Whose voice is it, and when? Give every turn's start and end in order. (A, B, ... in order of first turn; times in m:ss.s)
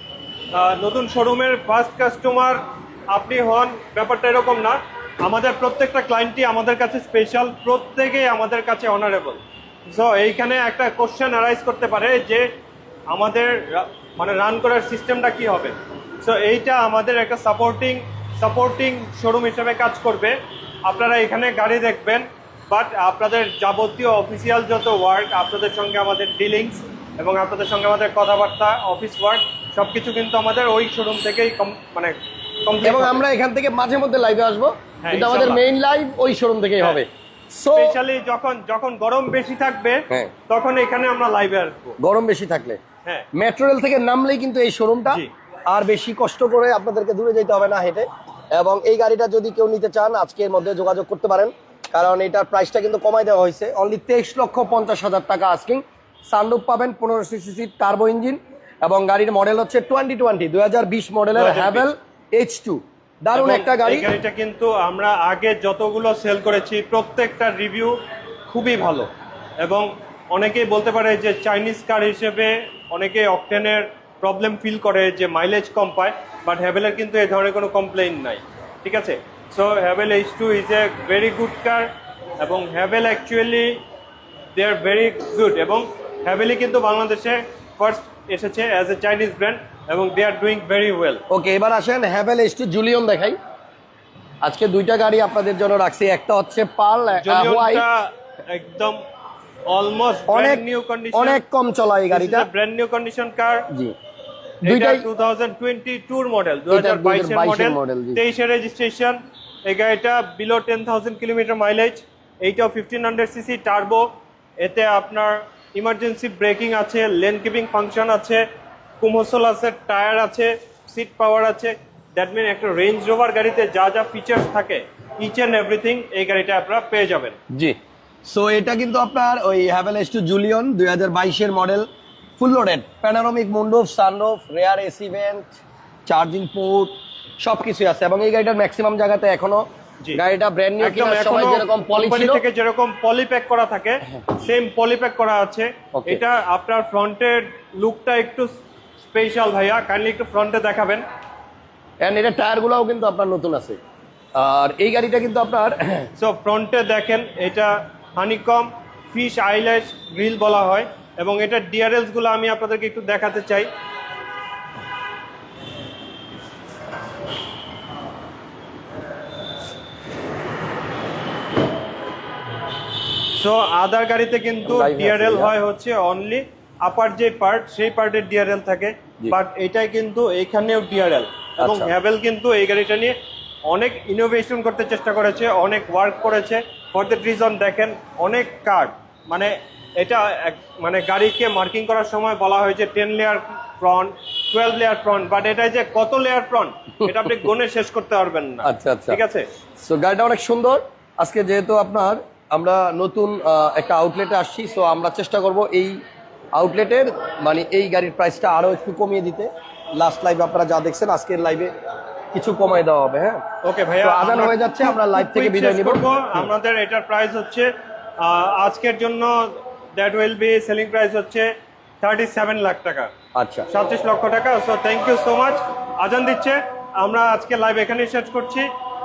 0:00.5-0:12.5 A
0:13.1-0:33.2 A
0:32.8-0:38.0 B
0:35.0-0:35.6 A
0:37.7-0:42.0 A
0:42.0-0:42.8 B
0:43.3-1:04.1 B
1:01.3-1:01.9 A
1:03.3-1:07.9 A
1:08.5-1:09.1 A
1:09.6-1:23.8 A
1:24.5-1:31.2 A
1:31.3-1:33.4 B
1:34.4-1:37.8 B
1:37.2-1:39.0 A
1:39.7-1:41.4 A
1:40.3-1:42.5 B
1:42.1-1:43.7 A
1:44.6-1:54.1 A
1:44.6-1:45.1 B
1:46.7-1:48.2 B
1:54.6-1:58.4 A
1:59.0-2:07.4 A
2:07.5-2:11.8 B
2:12.4-2:19.6 B
2:20.1-2:22.4 B
2:20.8-2:28.5 A
2:29.1-2:31.0 A
2:32.0-2:33.8 B
2:34.4-2:36.1 B
2:36.2-2:43.7 A
2:53.3-3:03.1 A
2:54.6-2:55.5 B
3:01.6-3:01.9 B
3:03.7-3:19.4 A
3:18.6-3:19.2 B
3:19.8-3:26.0 B
3:26.5-3:31.7 B
3:32.3-3:33.4 B
3:33.6-3:43.1 A
3:34.0-3:36.0 B
3:43.4-3:43.7 B
3:43.7-3:48.7 A